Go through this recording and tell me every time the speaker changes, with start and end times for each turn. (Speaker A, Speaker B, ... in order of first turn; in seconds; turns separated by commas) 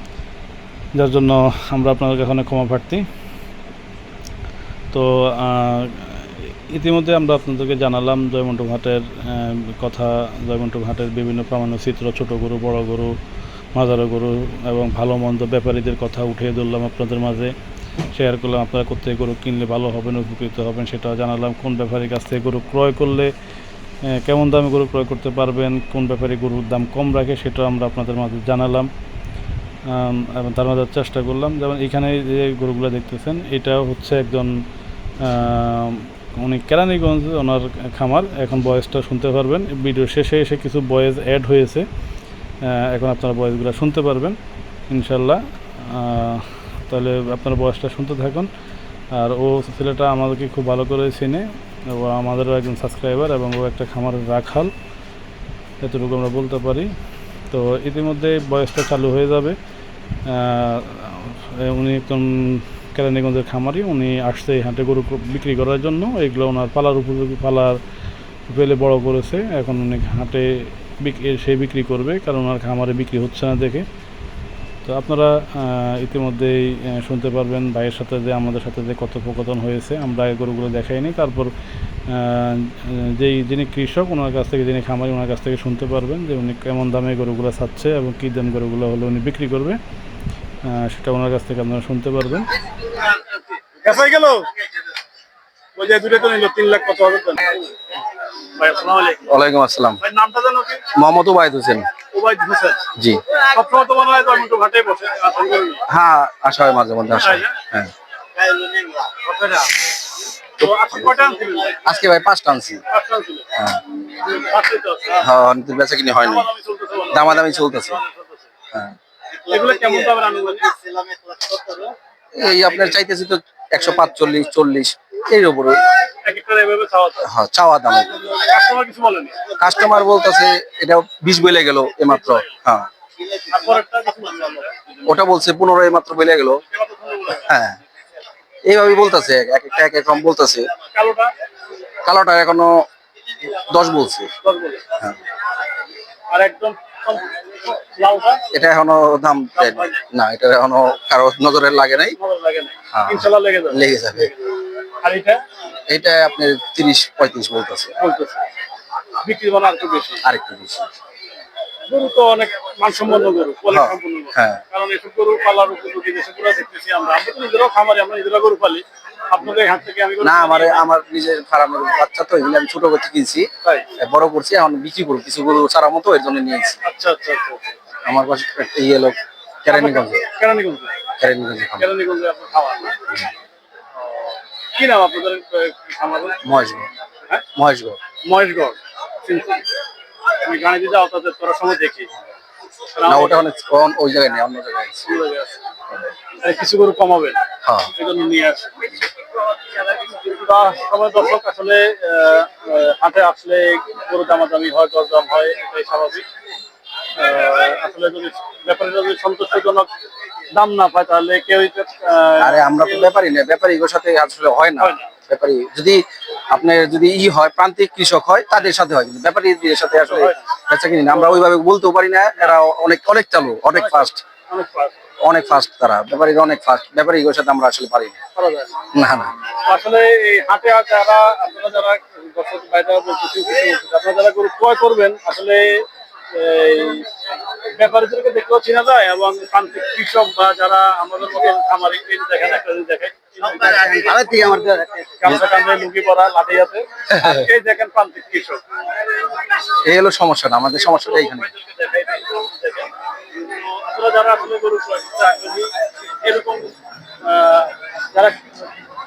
Speaker A: 0.9-3.0, Speaker A: 4.9-13.2, Speaker A: 13.7-17.5, Speaker A: 18.1-23.3, Speaker A: 24.0-28.9, Speaker A: 29.9-34.6, Speaker A: 35.2-41.9, Speaker A: 42.6-44.4, Speaker A: 44.9-48.5, Speaker A: 49.1-54.7, Speaker A: 55.8-56.9, Speaker A: 57.5-59.6, Speaker A: 60.2-67.8, Speaker A: 68.5-73.8, Speaker A: 74.8-81.5, Speaker A: 82.1-89.8, Speaker A: 90.6-92.5, Speaker B: 93.8-94.5, Speaker B: 95.8-97.7, Speaker B: 98.5-99.3, Speaker C: 99.3-100.0, Speaker B: 100.0-100.8, Speaker C: 100.9-101.9, Speaker B: 102.1-105.8, Speaker C: 103.0-103.2, Speaker C: 105.9-107.9, Speaker B: 107.1-107.6, Speaker B: 108.4-109.7, Speaker B: 110.6-111.9, Speaker C: 111.8-112.8, Speaker B: 112.9-113.5, Speaker C: 113.5-113.8, Speaker B: 114.1-115.3, Speaker C: 115.2-116.5, Speaker B: 116.2-118.5, Speaker C: 117.1-118.0, Speaker B: 119.5-122.0, Speaker C: 122.3-125.8, Speaker B: 126.2-127.2, Speaker C: 127.2-128.3, Speaker B: 128.3-129.5, Speaker C: 129.6-132.9, Speaker B: 132.1-132.4, Speaker B: 133.5-134.8, Speaker C: 135.0-136.6, Speaker B: 136.7-137.5, Speaker C: 137.4-137.8, Speaker C: 138.6-140.7, Speaker B: 140.9-141.3, Speaker C: 142.0-142.8, Speaker C: 143.5-144.3, Speaker B: 144.4-144.8, Speaker B: 146.3-148.4, Speaker C: 148.5-152.2, Speaker B: 149.6-150.0, Speaker B: 152.2-155.4, Speaker C: 152.9-154.3, Speaker C: 155.9-157.9, Speaker B: 158.0-158.5, Speaker B: 159.2-160.2, Speaker C: 160.2-160.8, Speaker B: 161.9-170.8, Speaker C: 163.7-164.6, Speaker C: 170.2-176.8, Speaker B: 176.8-177.7, Speaker C: 178.0-180.2, Speaker B: 179.7-181.0, Speaker C: 181.2-181.9, Speaker B: 181.8-183.0, Speaker B: 184.0-186.4, Speaker C: 186.4-186.9, Speaker C: 187.5-188.0, Speaker B: 188.2-189.7, Speaker B: 190.4-192.1, Speaker B: 192.9-193.4, Speaker C: 193.1-195.0, Speaker B: 195.0-195.6, Speaker B: 196.4-197.4, Speaker C: 197.6-197.9, Speaker B: 197.9-198.9, Speaker B: 199.7-206.2, Speaker B: 207.2-209.9, Speaker B: 210.5-213.1, Speaker C: 212.4-224.2, Speaker B: 214.8-215.1, Speaker B: 220.1-220.4, Speaker B: 223.9-225.0, Speaker C: 225.2-228.2, Speaker B: 228.3-228.7, Speaker C: 228.9-229.3, Speaker B: 229.6-237.1, Speaker B: 237.7-248.6, Speaker C: 244.2-244.9, Speaker C: 249.8-251.5, Speaker B: 250.8-258.4